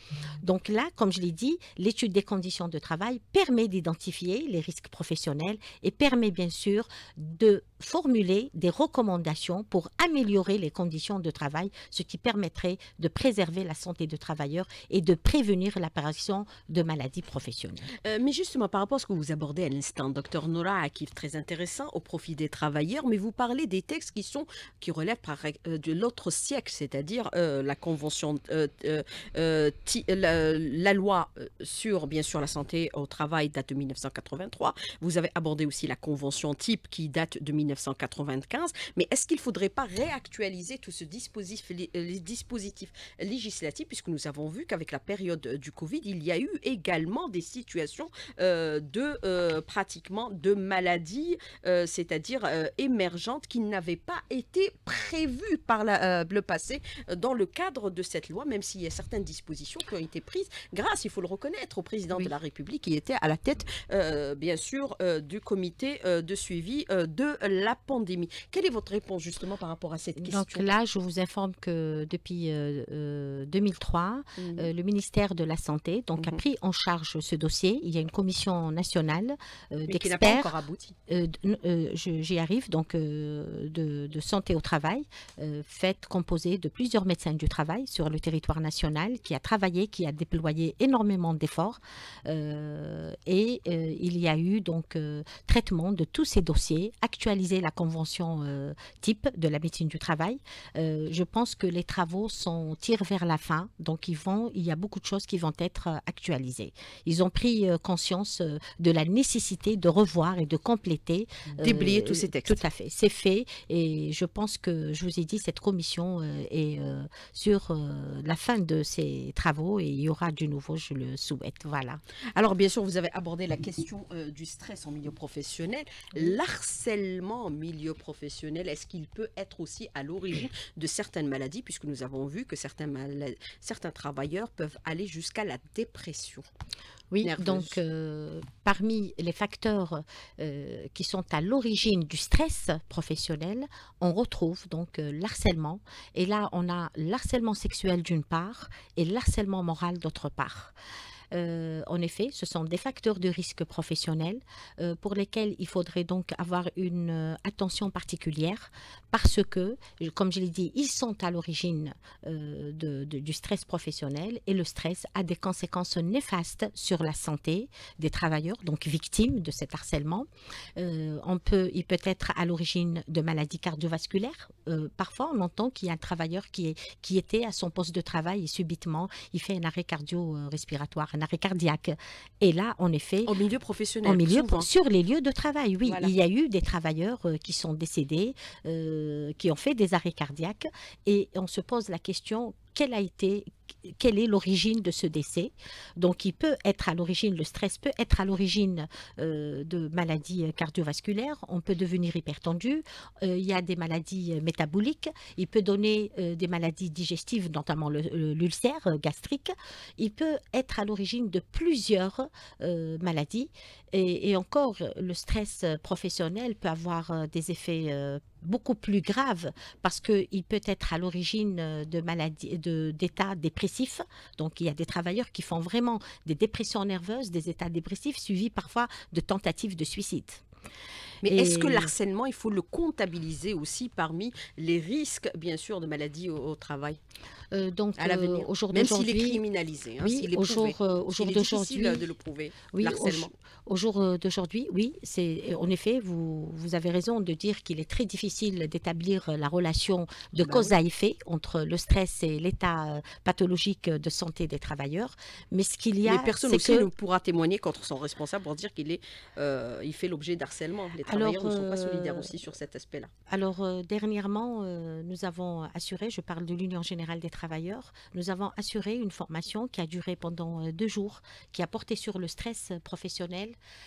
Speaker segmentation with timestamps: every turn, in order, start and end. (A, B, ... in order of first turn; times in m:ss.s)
0:00.4-0:17.9 A
0:18.0-1:10.6 B
1:10.2-1:20.5 A
1:14.4-1:14.7 B
1:19.9-1:21.0 B
1:21.1-2:02.0 A
1:51.6-1:52.6 B
2:02.4-2:16.5 B
2:17.1-2:30.7 A
2:17.2-2:17.8 B
2:31.3-3:03.4 A
3:03.3-3:04.7 B
3:04.0-3:50.4 A
3:05.8-3:06.1 B
3:51.2-3:57.0 B
3:51.2-3:51.9 A
3:57.5-3:59.4 A
3:58.0-4:03.3 B
4:00.0-4:02.1 A
4:02.7-4:16.9 A
4:10.4-4:10.7 B
4:16.0-4:23.1 B
4:21.0-4:22.3 A
4:23.3-4:33.6 A